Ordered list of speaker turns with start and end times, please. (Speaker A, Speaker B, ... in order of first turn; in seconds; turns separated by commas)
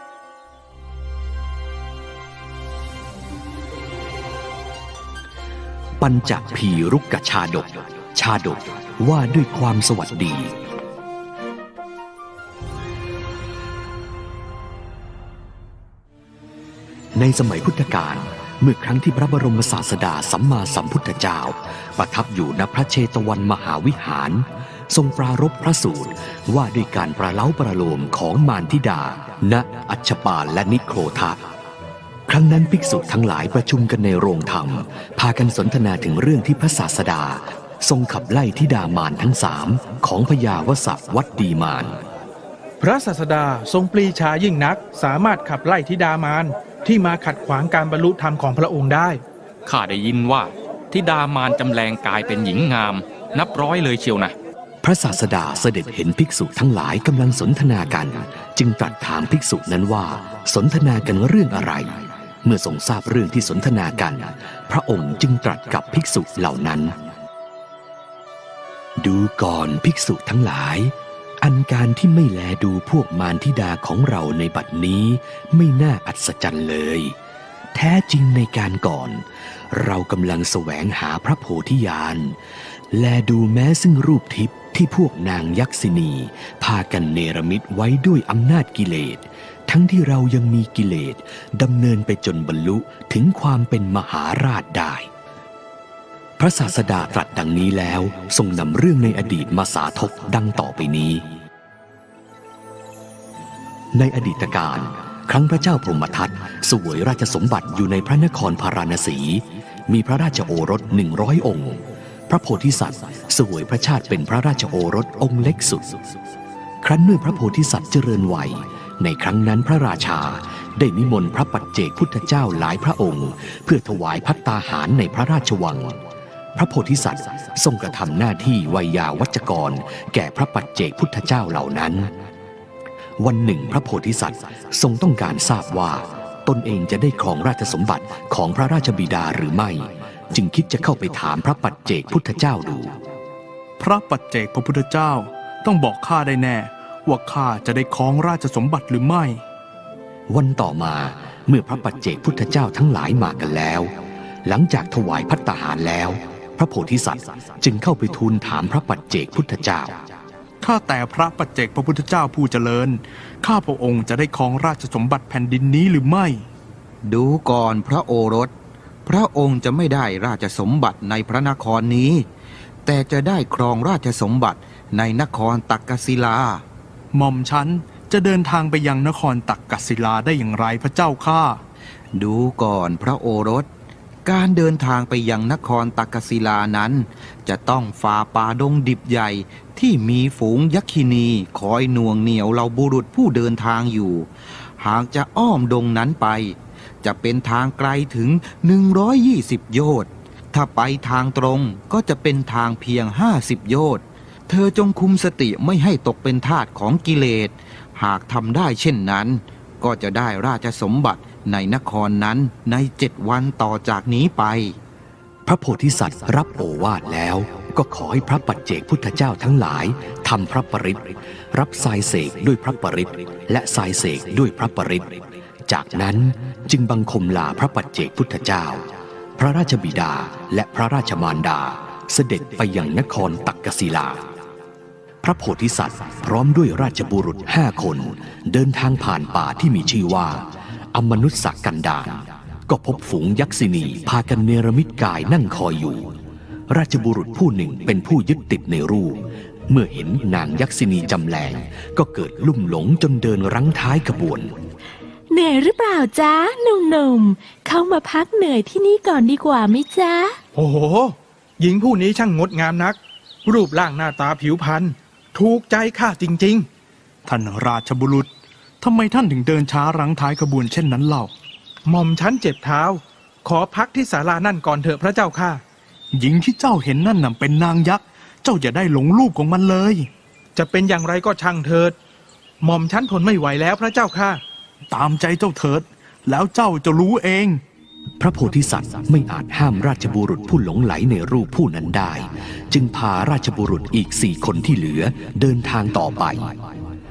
Speaker A: 6.0-10.5, Speaker A: 17.1-31.4, Speaker A: 32.3-42.0, Speaker B: 42.8-49.2, Speaker C: 49.6-54.3, Speaker A: 54.8-67.0, Speaker A: 69.0-77.1, Speaker A: 77.7-82.3, Speaker A: 82.9-95.1, Speaker A: 96.4-101.2, Speaker A: 103.9-116.0, Speaker A: 116.8-125.9, Speaker A: 126.5-132.1, Speaker A: 133.2-143.0, Speaker D: 143.8-149.4, Speaker A: 150.3-153.9, Speaker A: 154.4-160.0, Speaker D: 160.6-166.4, Speaker E: 167.0-168.5, Speaker E: 169.1-172.2, Speaker E: 172.8-176.6, Speaker D: 177.1-181.6, Speaker E: 182.1-183.7, Speaker E: 184.2-214.8, Speaker A: 215.4-228.8, Speaker A: 229.4-234.2, Speaker A: 235.2-240.4, Speaker A: 240.9-246.1, Speaker A: 246.7-254.5, Speaker F: 255.3-260.4, Speaker B: 260.5-266.6, Speaker D: 267.2-268.3, Speaker D: 268.8-271.3, Speaker B: 271.9-275.6, Speaker D: 276.1-280.1, Speaker B: 280.6-281.9, Speaker B: 282.6-284.4, Speaker D: 284.9-287.6, Speaker A: 288.2-296.5